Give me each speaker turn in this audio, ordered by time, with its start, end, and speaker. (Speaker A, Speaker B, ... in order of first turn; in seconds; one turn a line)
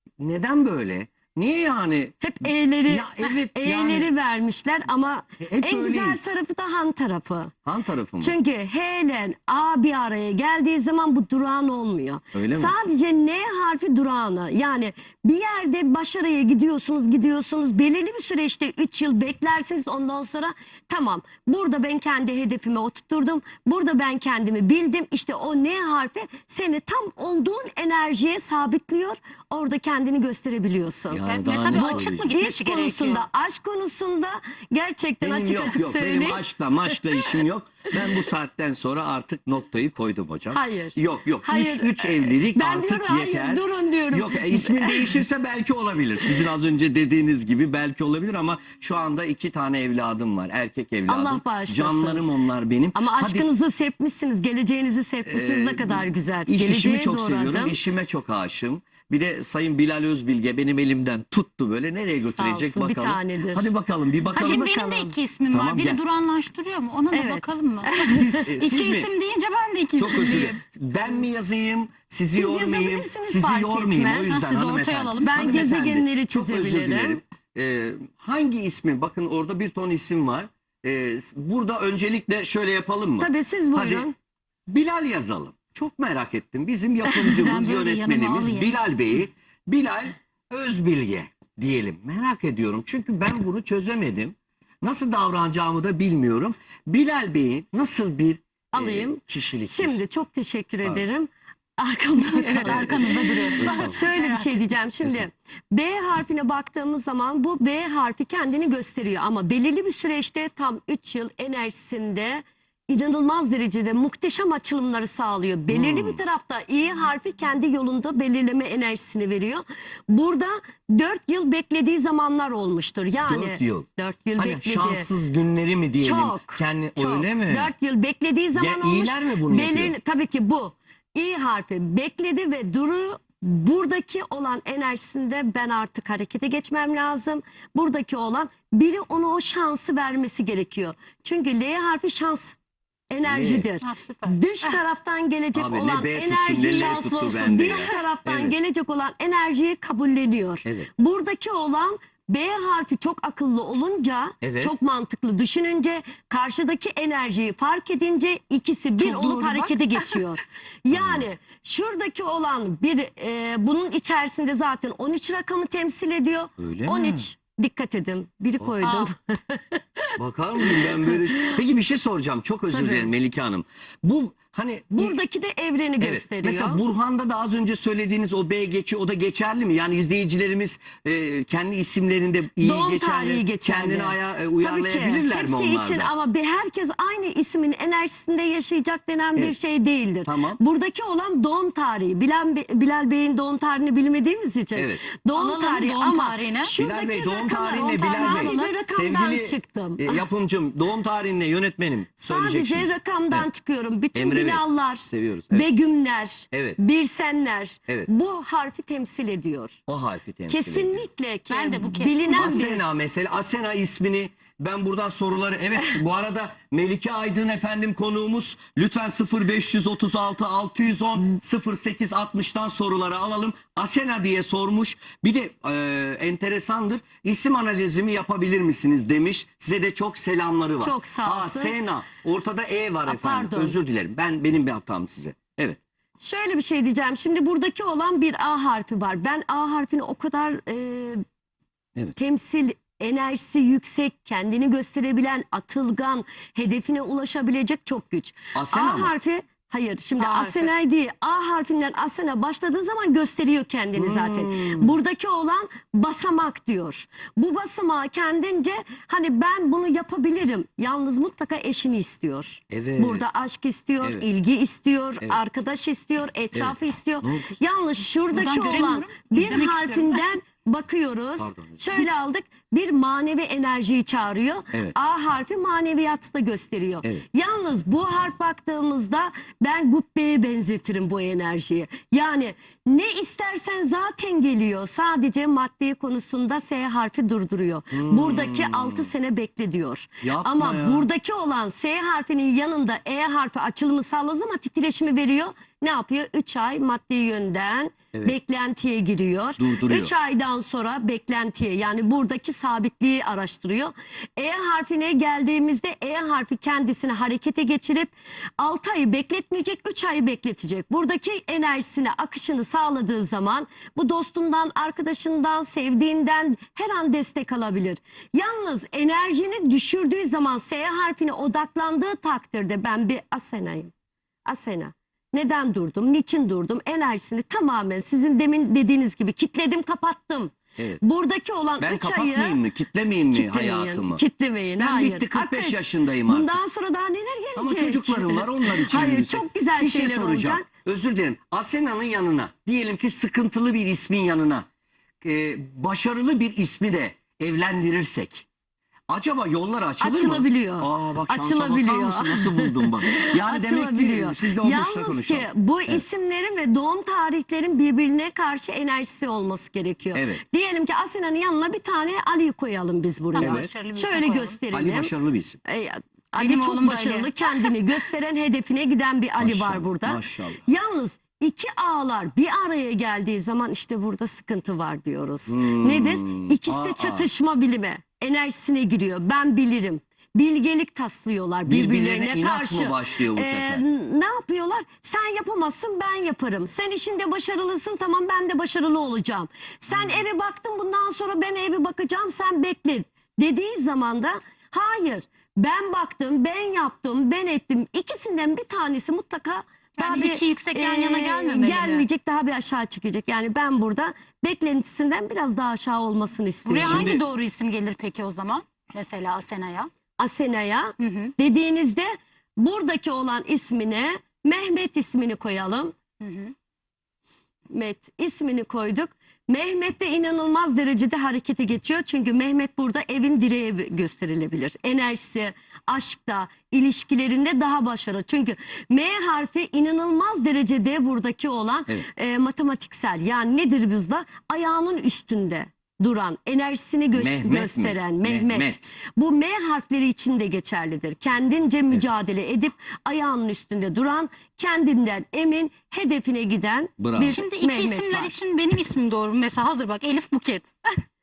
Speaker A: 0.2-2.3
Speaker B: 2.2-7.5
Speaker A: 2.9-4.1
Speaker A: 5.4-6.4
Speaker A: 7.7-8.3
Speaker B: 8.2-37.3
Speaker A: 12.3-12.7
Speaker A: 31.1-32.3
Speaker C: 31.2-33.2
Speaker A: 35.2-53.5
Speaker B: 40.5-45.2
Speaker B: 51.1-52.2
Speaker B: 52.9-57.8
Speaker A: 55.2-64.6
Speaker B: 62.3-63.7
Speaker C: 64.3-70.6
Speaker B: 64.3-65.1
Speaker A: 65.5-66.0
Speaker B: 67.1-68.5
Speaker A: 68.0-69.1
Speaker A: 70.0-84.0
Speaker B: 72.3-74.4
Speaker C: 74.3-75.6
Speaker B: 75.2-77.2
Speaker B: 83.2-84.1
Speaker A: 84.7-100.0
Speaker C: 87.0-88.7
Speaker B: 98.7-125.1
Speaker C: 102.2-104.7
Speaker A: 102.6-104.0
Speaker A: 115.7-116.2
Speaker A: 123.3-127.7
Speaker B: 126.0-142.6
Speaker A: 128.5-129.9
Speaker B: 143.1-171.6
Speaker A: 143.2-143.7
Speaker C: 143.8-144.8
Speaker A: 145.5-148.5
Speaker C: 146.6-148.0
Speaker A: 154.4-154.7
Speaker C: 159.0-160.2
Speaker A: 160.9-161.2
Speaker A: 166.6-167.2
Speaker C: 168.8-169.1
Speaker A: 170.2-175.2
Speaker B: 172.7-173.1
Speaker B: 175.0-176.8
Speaker A: 176.0-186.1
Speaker B: 182.6-200.2
Speaker A: 190.2-190.6
Speaker A: 194.7-195.0
Speaker C: 195.3-196.7
Speaker A: 196.8-203.5
Speaker C: 197.6-198.8
Speaker B: 202.2-209.8
Speaker A: 204.1-205.7
Speaker A: 206.5-206.8
Speaker A: 209.9-211.0
Speaker B: 210.5-212.8
Speaker C: 211.5-212.4
Speaker A: 212.3-235.8
Speaker B: 230.8-231.7
Speaker B: 233.0-233.8
Speaker B: 236.2-241.2
Speaker B: 242.2-323.9
Speaker A: 248.5-249.1
Speaker C: 250.2-250.7
Speaker A: 253.9-254.9
Speaker A: 262.7-263.2
Speaker A: 266.5-267.6
Speaker C: 268.3-270.2
Speaker A: 271.4-272.0
Speaker A: 287.9-289.1
Speaker A: 290.2-291.1
Speaker A: 299.6-300.1
Speaker B: 324.4-332.6
Speaker A: 331.8-334.2
Speaker B: 333.3-340.7
Speaker A: 334.8-336.6
Speaker A: 337.6-344.7
Speaker A: 345.2-348.4
Speaker A: 349.1-356.0
Speaker B: 350.0-365.1
Speaker A: 360.1-360.4
Speaker C: 363.3-364.6
Speaker A: 363.4-363.7
Speaker A: 364.7-365.6
Speaker B: 365.6-407.1
Speaker C: 366.4-367.7
Speaker A: 369.4-370.7
Speaker A: 375.5-377.3
Speaker A: 381.6-383.8
Speaker A: 389.9-390.2
Speaker C: 400.0-402.0
Speaker C: 406.6-409.9
Speaker A: 406.8-407.2
Speaker B: 410.2-415.9
Speaker C: 411.0-411.3
Speaker C: 416.2-416.5
Speaker B: 417.7-448.3
Speaker A: 437.1-438.9
Speaker A: 447.0-447.4
Speaker C: 447.2-450.7